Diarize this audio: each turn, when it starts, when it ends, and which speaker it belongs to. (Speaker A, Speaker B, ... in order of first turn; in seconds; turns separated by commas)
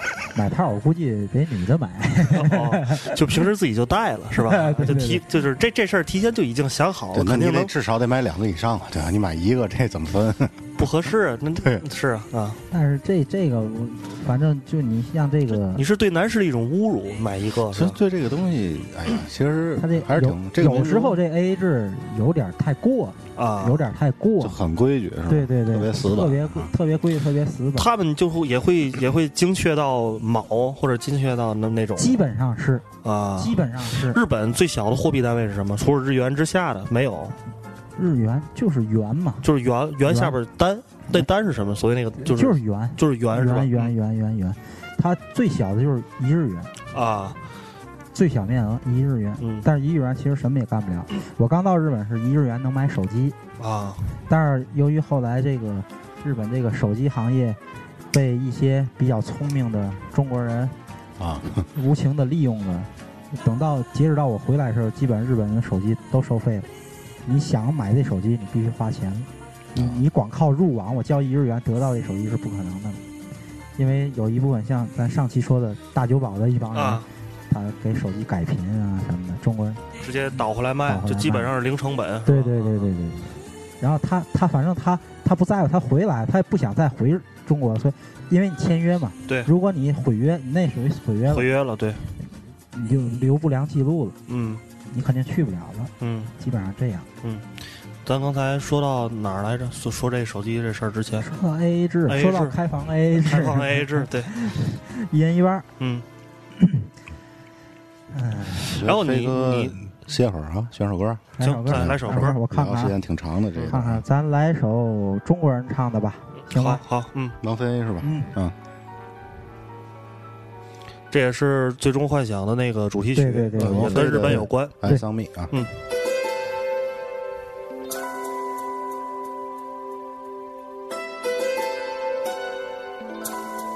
Speaker A: 0.3-3.1, Speaker B: 2.3-7.7, Speaker A: 4.4-5.3, Speaker C: 7.1-10.6, Speaker B: 10.8-12.6, Speaker A: 12.7-15.8, Speaker B: 15.5-18.0, Speaker C: 17.7-21.2, Speaker A: 19.8-24.6, Speaker B: 23.4-23.9, Speaker C: 24.4-26.7, Speaker A: 25.3-27.9, Speaker B: 27.8-32.1, Speaker A: 32.0-32.9, Speaker B: 33.0-37.4, Speaker A: 33.4-34.2, Speaker A: 38.0-39.5, Speaker B: 39.4-43.9, Speaker A: 40.0-40.4, Speaker A: 42.2-46.7, Speaker B: 46.9-47.4, Speaker A: 48.1-53.4, Speaker B: 49.4-49.7, Speaker B: 53.6-54.0, Speaker A: 54.3-57.6, Speaker A: 58.1-60.7, Speaker C: 61.2-61.7, Speaker A: 61.7-66.7, Speaker A: 67.2-73.0, Speaker C: 69.7-70.0, Speaker A: 73.8-79.8, Speaker B: 76.7-77.0, Speaker B: 80.0-82.9, Speaker A: 80.8-81.5, Speaker A: 82.2-91.5, Speaker B: 91.3-92.1, Speaker A: 92.7-94.2, Speaker B: 94.3-94.6, Speaker A: 94.9-97.1, Speaker B: 96.0-96.3, Speaker B: 98.0-101.3, Speaker A: 101.2-105.7, Speaker B: 102.1-102.6, Speaker B: 103.1-104.3, Speaker B: 105.8-106.0, Speaker A: 106.6-106.9, Speaker A: 108.1-108.8, Speaker C: 108.7-114.0, Speaker B: 108.8-109.8, Speaker A: 111.4-113.0, Speaker B: 111.4-112.3, Speaker A: 113.7-116.8, Speaker B: 116.5-117.4, Speaker C: 117.4-118.5, Speaker A: 118.0-118.3, Speaker B: 121.1-124.8, Speaker A: 123.2-125.0, Speaker C: 123.5-125.5